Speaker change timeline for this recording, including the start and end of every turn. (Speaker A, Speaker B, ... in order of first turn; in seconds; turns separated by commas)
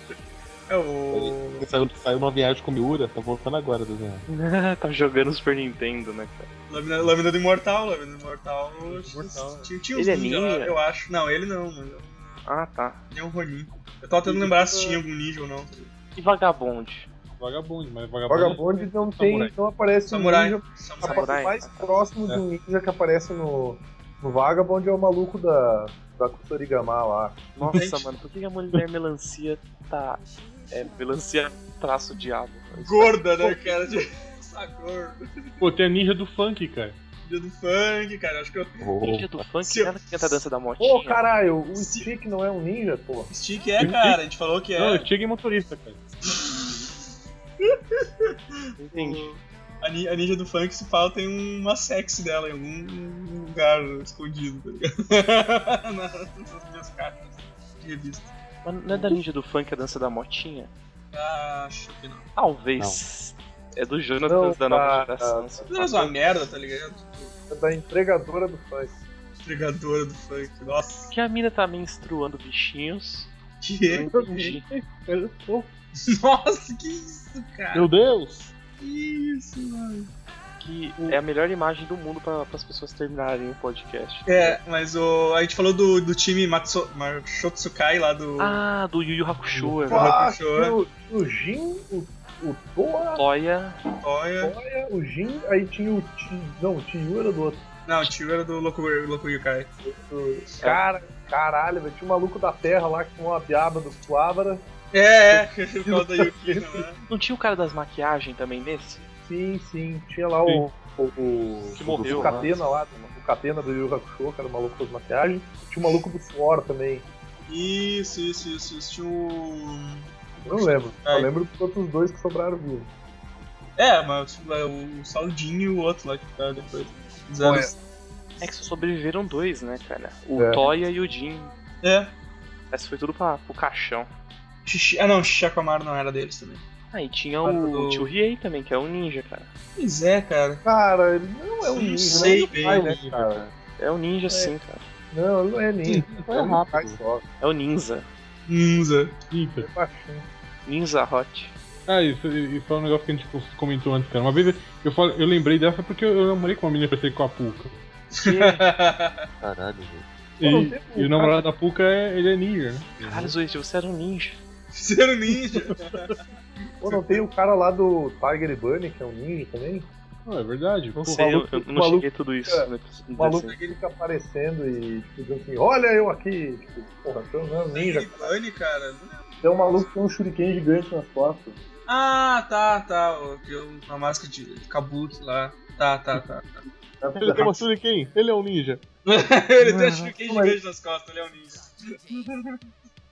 Speaker A: 0.7-1.6, Speaker B: 1.1-4.2, Speaker C: 4.3-6.5, Speaker A: 6.7-12.1, Speaker D: 8.8-9.7, Speaker C: 9.9-10.8, Speaker C: 12.4-13.0, Speaker A: 13.1-15.9, Speaker D: 14.3-15.0, Speaker C: 16.1-17.1, Speaker D: 17.4-19.5, Speaker E: 18.3-27.4, Speaker A: 20.1-21.4, Speaker C: 21.0-21.9, Speaker C: 27.6-33.2, Speaker A: 27.7-28.1, Speaker A: 32.7-35.2, Speaker D: 35.6-37.0, Speaker A: 37.2-38.8, Speaker B: 38.8-39.5, Speaker C: 39.0-41.2, Speaker A: 39.6-39.9, Speaker E: 40.8-43.3, Speaker A: 41.8-42.1, Speaker A: 43.3-45.1, Speaker D: 43.8-44.2, Speaker D: 44.8-46.0, Speaker A: 46.2-46.9, Speaker A: 47.6-48.3, Speaker C: 48.8-49.3, Speaker A: 48.9-58.3, Speaker C: 58.6-60.7, Speaker A: 61.1-62.3, Speaker C: 62.4-66.1, Speaker E: 64.2-65.7, Speaker A: 65.7-67.3, Speaker E: 67.5-68.9, Speaker A: 69.4-71.1, Speaker C: 71.1-73.3, Speaker A: 73.6-74.2, Speaker C: 74.0-74.6, Speaker D: 74.0-75.7, Speaker A: 76.1-77.9, Speaker B: 77.7-78.5, Speaker A: 78.8-80.1, Speaker C: 80.6-84.6, Speaker A: 84.2-88.6, Speaker C: 88.4-90.1, Speaker D: 89.5-89.8, Speaker E: 89.8-93.2, Speaker A: 89.9-90.8, Speaker C: 93.1-93.8, Speaker A: 94.0-94.5, Speaker E: 94.4-97.6, Speaker A: 97.9-99.7, Speaker E: 99.8-104.6, Speaker A: 104.9-107.0, Speaker E: 105.3-106.9, Speaker C: 107.1-109.0, Speaker E: 109.2-117.0, Speaker C: 111.8-113.1, Speaker B: 111.8-112.5, Speaker A: 117.5-121.3, Speaker E: 120.4-122.9, Speaker A: 123.8-127.7, Speaker E: 127.4-127.7, Speaker C: 128.4-131.5, Speaker E: 130.3-130.6, Speaker A: 131.8-132.1, Speaker C: 132.7-134.1, Speaker A: 134.6-136.6, Speaker C: 136.9-139.5, Speaker A: 137.4-138.1, Speaker A: 139.8-140.6, Speaker E: 140.6-143.4, Speaker A: 141.7-142.8, Speaker B: 142.1-143.5, Speaker C: 143.8-144.8, Speaker E: 145.1-147.2, Speaker D: 145.9-146.2, Speaker B: 146.2-147.0, Speaker C: 147.4-148.1, Speaker A: 148.5-149.1, Speaker D: 149.3-149.7, Speaker E: 149.6-150.3, Speaker C: 150.7-151.5, Speaker D: 151.9-157.8, Speaker C: 158.1-158.6, Speaker A: 158.1-159.2, Speaker B: 159.4-160.0, Speaker D: 160.4-162.9, Speaker E: 160.4-161.4, Speaker B: 163.0-163.3, Speaker C: 163.0-164.4, Speaker A: 164.7-166.2, Speaker A: 166.8-167.2, Speaker E: 166.8-169.9, Speaker D: 170.2-171.5, Speaker C: 170.9-173.6, Speaker E: 171.5-178.3, Speaker A: 173.5-173.8, Speaker A: 177.7-179.3, Speaker E: 179.4-181.6, Speaker A: 181.9-186.7, Speaker E: 187.0-187.5, Speaker B: 187.2-188.8, Speaker A: 189.0-192.6, Speaker E: 189.6-190.6